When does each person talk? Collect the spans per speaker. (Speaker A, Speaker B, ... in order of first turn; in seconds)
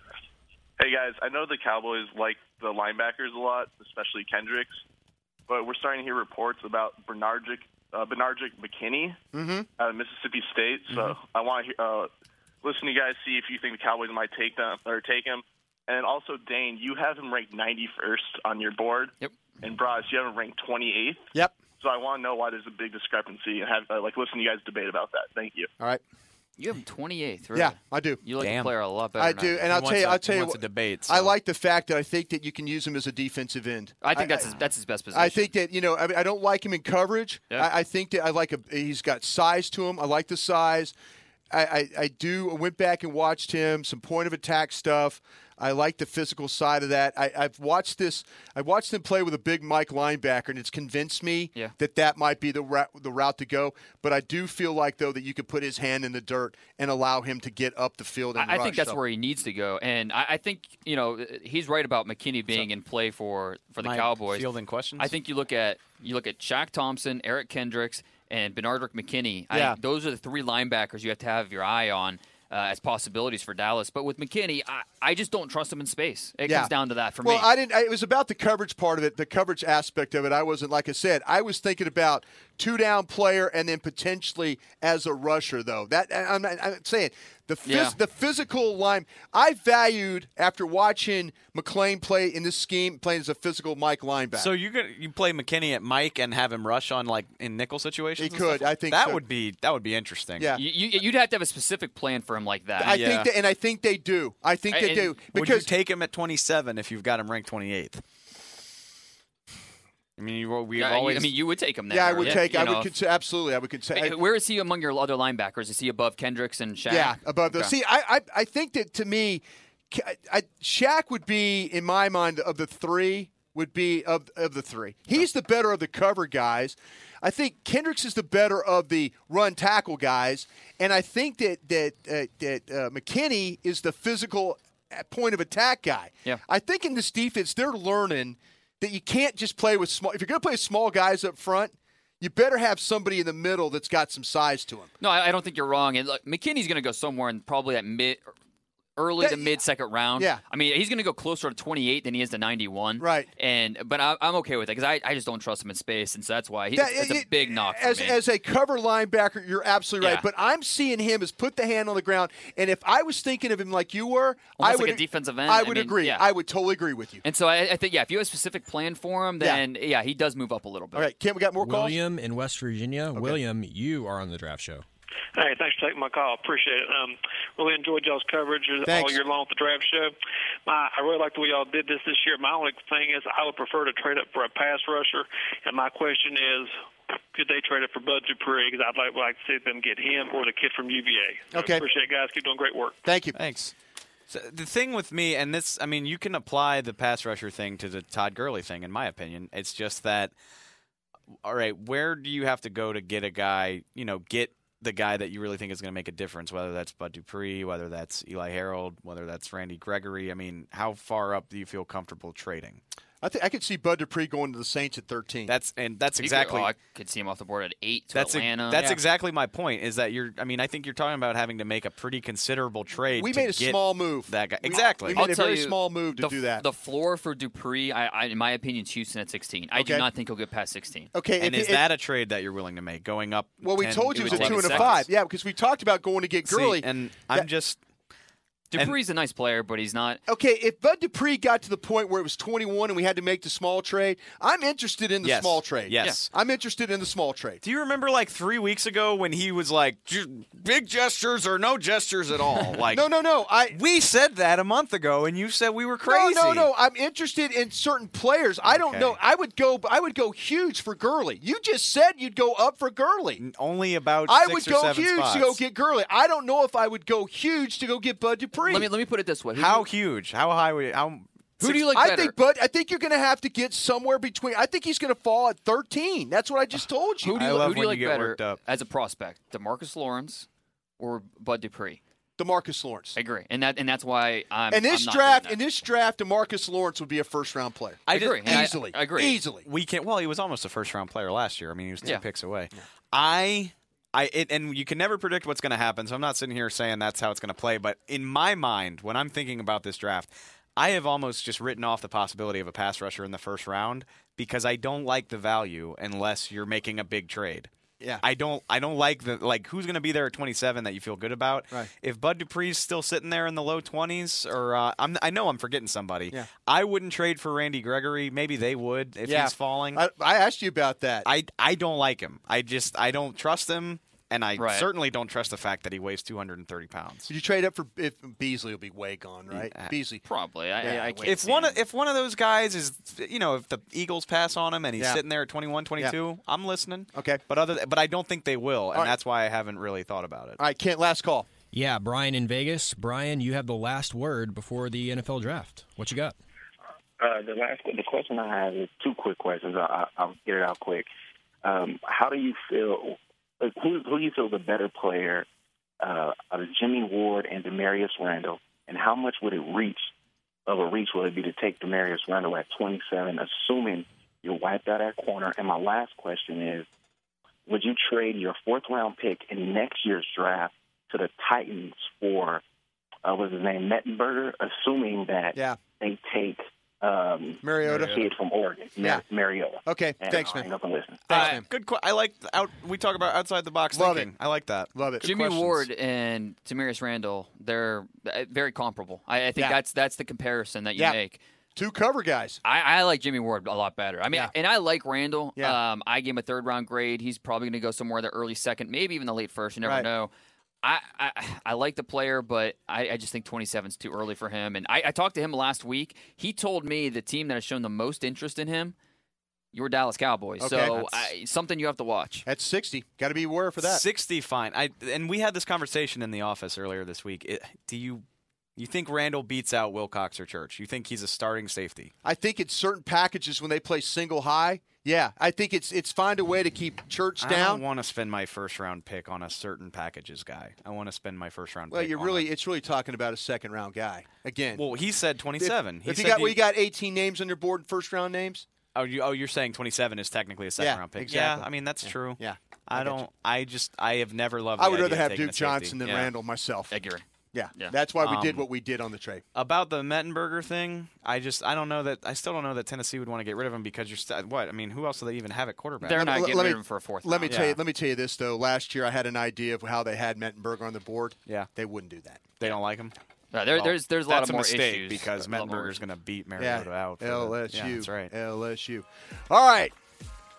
Speaker A: 0.8-4.8, 5.5-9.2, 9.8-12.1, 12.6-21.3, 21.8-25.7
Speaker B: 9.3-9.7, 27.5-28.2, 29.2-34.5, 35.1-40.9, 41.5-59.0, 69.5-69.8, 76.5-94.5, 98.2-99.2, 102.8-105.7, 111.9-114.2, 116.9-144.9, 149.2-149.6, 150.2-150.4, 153.0-153.3, 156.8-167.2, 170.9-172.0, 178.8-179.2, 191.5-191.8, 193.1-193.4, 213.2-215.5, 223.2-226.7, 229.8-230.1, 231.1-231.8, 233.6-237.5, 240.3-247.6, 252.9-253.8, 256.0-263.4, 264.3-268.9, 271.6-277.4, 282.4-283.2, 284.7-289.7, 319.3-321.3, 327.3-330.2, 330.8-331.4, 337.1-337.4, 340.6-341.5, 377.6-378.2, 379.9-380.7, 381.3-381.7, 383.9-384.3, 384.9-385.7, 391.8-392.6, 410.6-411.2, 412.5-414.0, 422.2-427.8, 431.9-434.8, 435.6-438.6, 440.8-443.2, 444.8-446.9, 447.5-449.4, 456.1-462.5, 466.6-469.9
Speaker C: 10.9-11.2, 28.4-28.7, 29.7-31.3, 63.8-65.1, 94.3-100.6, 102.8-103.3, 105.3-108.0, 110.2-111.3, 193.3-193.7, 194.3-200.3, 201.4-212.8, 215.5-216.7, 218.1-225.2, 231.4-235.1, 236.5-237.8, 245.2-246.3, 247.6-253.1, 253.7-256.7, 258.7-259.2, 263.4-265.6, 269.6-271.3, 277.4-278.6, 288.1-288.7, 289.6-307.7, 308.2-320.0, 321.3-327.3, 329.5-329.9, 331.2-340.6, 377.9-378.2, 381.3-385.8, 413.8-418.2, 418.8-422.1, 427.4-432.4, 434.8-436.6, 438.9-446.3, 448.2-448.6, 449.6-456.3, 457.5-457.8, 462.6-463.1, 463.7-468.3
Speaker D: 26.6-29.7, 34.0-35.5, 58.4-77.5, 87.7-88.0, 100.5-103.0, 104.7-105.2, 110.8-112.9, 113.9-117.8, 145.0-148.3, 149.0-158.2, 160.0-160.3, 164.6-166.3, 167.2-171.1, 216.2-219.0, 225.2-231.1, 234.2-235.1, 238.7-240.2, 268.6-269.9, 271.6-272.4, 277.2-280.5, 281.0-282.0, 283.1-285.6, 288.1-289.4, 324.6-324.9, 330.2-331.8, 385.2-391.4, 392.6-400.3, 400.8-408.9, 409.7-412.5, 446.9-448.0, 456.0-457.8, 463.5-466.0
Speaker E: 171.6-174.8, 341.7-346.4
Speaker F: 175.3-180.1, 180.7-186.7, 187.3-193.0
Speaker G: 347.2-351.1, 351.6-355.5, 356.0-360.1, 360.7-366.9, 367.7-372.6, 373.2-381.4